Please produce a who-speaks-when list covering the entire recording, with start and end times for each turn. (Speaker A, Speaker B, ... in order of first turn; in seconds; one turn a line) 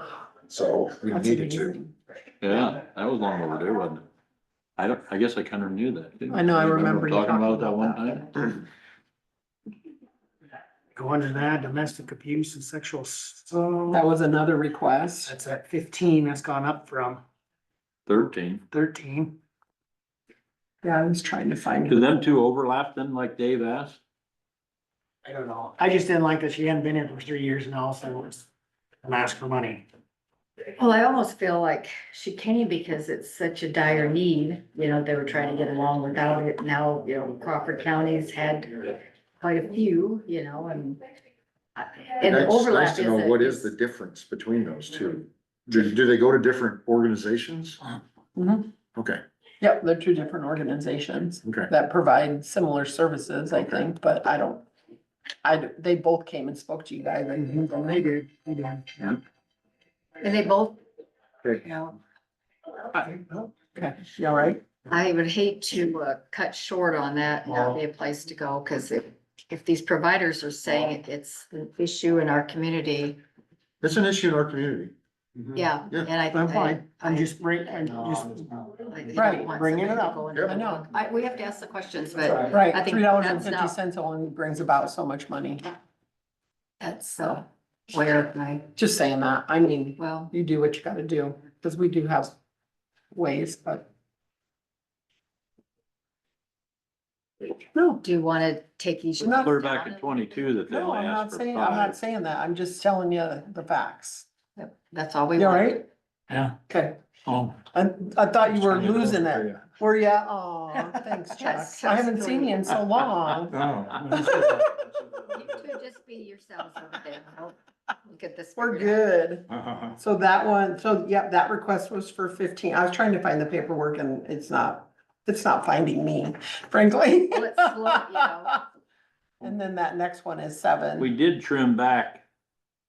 Speaker A: 0.5-1.8
Speaker B: 1.1-1.9
Speaker C: 2.4-4.0
Speaker C: 4.8-8.4
Speaker B: 6.3-8.6
Speaker D: 10.9-14.0
Speaker B: 13.9-15.3
Speaker D: 15.3-17.2
Speaker C: 18.1-18.6
Speaker D: 18.7-19.4
Speaker B: 20.8-22.3
Speaker C: 21.9-24.0
Speaker D: 25.2-28.5
Speaker D: 29.0-29.8
Speaker E: 30.8-41.0
Speaker E: 41.8-43.7
Speaker A: 42.2-47.8
Speaker B: 48.4-48.7
Speaker A: 49.0-49.2
Speaker B: 49.6-54.7
Speaker A: 51.5-51.7
Speaker A: 53.5-53.8
Speaker B: 55.4-58.1
Speaker D: 57.4-58.9
Speaker E: 60.2-60.8
Speaker E: 61.5-62.0
Speaker B: 63.1-64.6
Speaker E: 64.9-73.2
Speaker A: 73.8-75.0
Speaker D: 75.4-75.6
Speaker E: 75.5-78.3
Speaker D: 76.3-80.3
Speaker E: 78.8-83.8
Speaker B: 79.2-79.5
Speaker B: 80.4-80.8
Speaker B: 82.2-85.7
Speaker E: 86.8-88.7
Speaker B: 88.8-92.3
Speaker E: 90.0-90.3
Speaker B: 93.1-93.8
Speaker B: 97.7-98.0
Speaker E: 98.0-100.4
Speaker B: 99.2-99.6
Speaker C: 99.4-102.0
Speaker B: 100.7-104.3
Speaker E: 104.6-105.9
Speaker B: 105.4-105.8
Speaker C: 106.3-106.5
Speaker B: 106.7-107.0
Speaker C: 107.3-107.5
Speaker B: 107.6-113.6
Speaker C: 108.6-109.5
Speaker E: 111.4-112.7
Speaker C: 113.5-114.7
Speaker B: 114.1-114.5
Speaker E: 114.1-114.5
Speaker E: 115.3-119.1
Speaker B: 118.6-119.5
Speaker B: 120.0-128.6
Speaker E: 127.3-128.6
Speaker B: 129.4-131.1
Speaker C: 131.0-132.2